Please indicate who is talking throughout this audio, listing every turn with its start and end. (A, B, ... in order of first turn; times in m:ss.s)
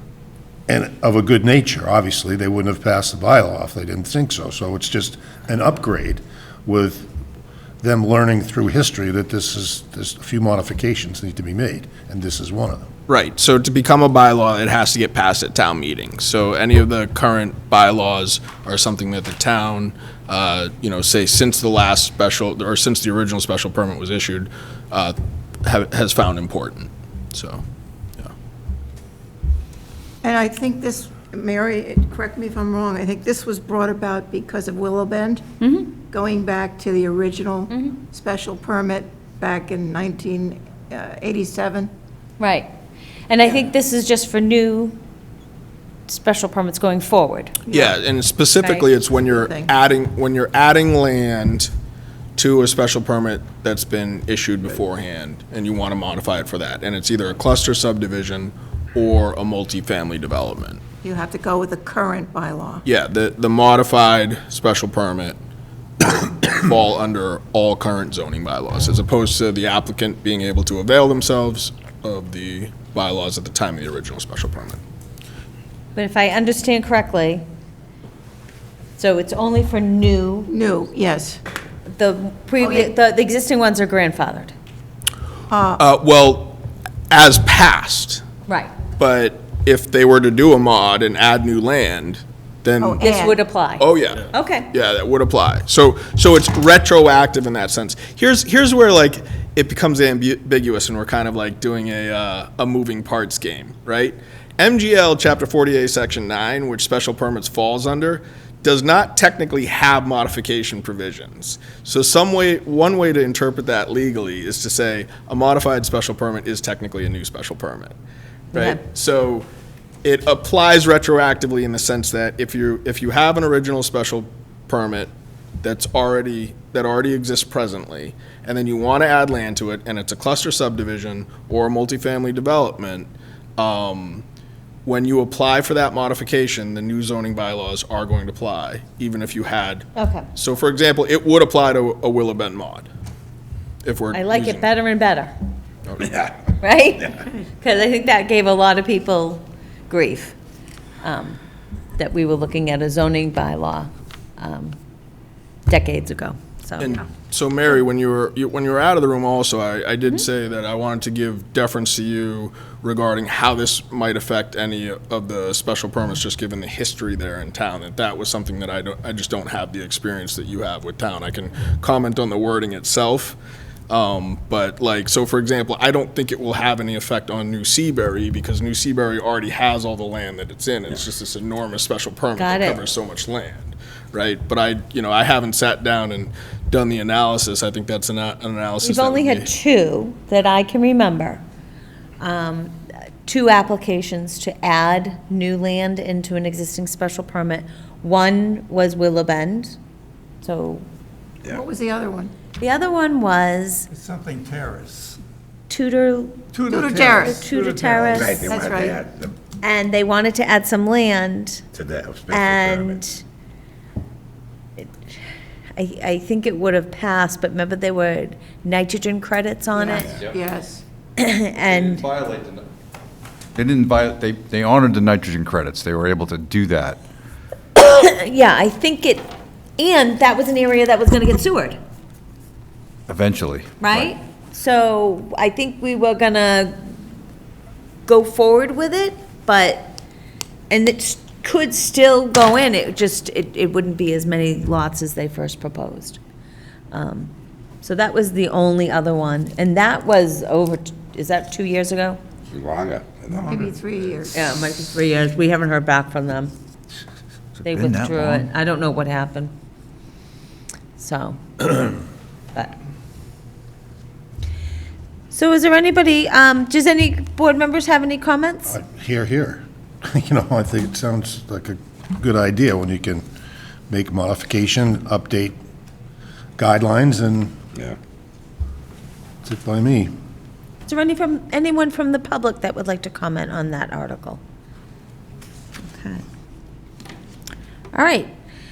0:00.7-0:07.1 A
0:07.8-0:12.9 A
0:13.1-0:27.6 B
0:30.2-0:35.4 C
0:35.6-0:35.9 D
0:36.1-0:41.9 C
0:37.7-0:38.0 D
0:42.4-0:42.7 D
0:43.3-0:45.0 D
0:46.1-0:47.6 D
0:47.6-0:47.9 C
0:47.7-0:51.7 B
0:48.6-0:48.8 D
0:49.2-0:49.7 C
0:52.4-1:00.8 B
1:01.0-1:02.8 C
1:02.8-1:05.4 B
1:06.0-1:14.8 B
1:15.9-1:17.4 D
1:19.0-1:20.5 D
1:20.5-1:21.4 C
1:21.9-1:24.5 D
1:22.6-1:22.9 C
1:25.5-1:25.8 C
1:25.8-1:28.2 B
1:28.5-1:28.7 D
1:29.0-1:33.1 B
1:32.8-1:33.4 C
1:33.0-1:34.7 D
1:33.8-1:57.9 B
1:58.5-1:59.5 B
1:58.5-1:58.8 D
2:00.0-2:14.2 B
2:14.8-2:22.9 B
2:20.0-2:20.2 D
2:23.8-2:24.6 B
2:24.1-2:25.3 D
2:25.9-2:26.2 B
2:26.6-2:30.3 D
2:31.0-2:31.4 D
2:32.0-2:34.8 D
2:35.7-2:37.0 D
2:36.8-2:53.4 B
2:53.9-3:09.5 B
3:02.4-3:02.8 D
3:08.8-3:11.4 D
3:12.2-3:19.8 D
3:20.4-3:20.8 D
3:21.5-3:22.3 C
3:22.6-3:23.9 D
3:23.9-3:25.2 E
3:25.7-3:26.4 D
3:26.5-3:28.2 E
3:26.7-3:27.4 C
3:27.1-3:28.4 D
3:28.1-3:29.3 F
3:28.2-3:29.0 C
3:29.6-3:31.6 D
3:31.7-3:33.0 F
3:32.3-3:33.2 D
3:35.8-3:40.0 D
3:39.7-3:40.8 C
3:41.2-3:42.1 D
3:41.6-3:42.6 G
3:43.5-3:47.0 G
3:47.8-3:51.8 D
3:53.1-3:54.1 G
3:53.8-3:56.9 D
3:58.0-4:00.0 D
4:00.7-4:06.2 D
4:06.9-4:12.2 D
4:12.5-4:13.4 F
4:13.4-4:13.7 E
4:13.4-4:14.4 C
4:14.3-4:16.5 D
4:17.6-4:19.5 D
4:17.8-4:18.4 G
4:21.0-4:22.0 D
4:25.3-4:28.7 D
4:28.7-4:33.2 A
4:33.9-4:35.6 A
4:36.6-4:37.6 A
4:39.4-4:40.1 A
4:40.8-4:44.4 D
4:45.9-4:46.2 D
4:47.9-4:48.3 D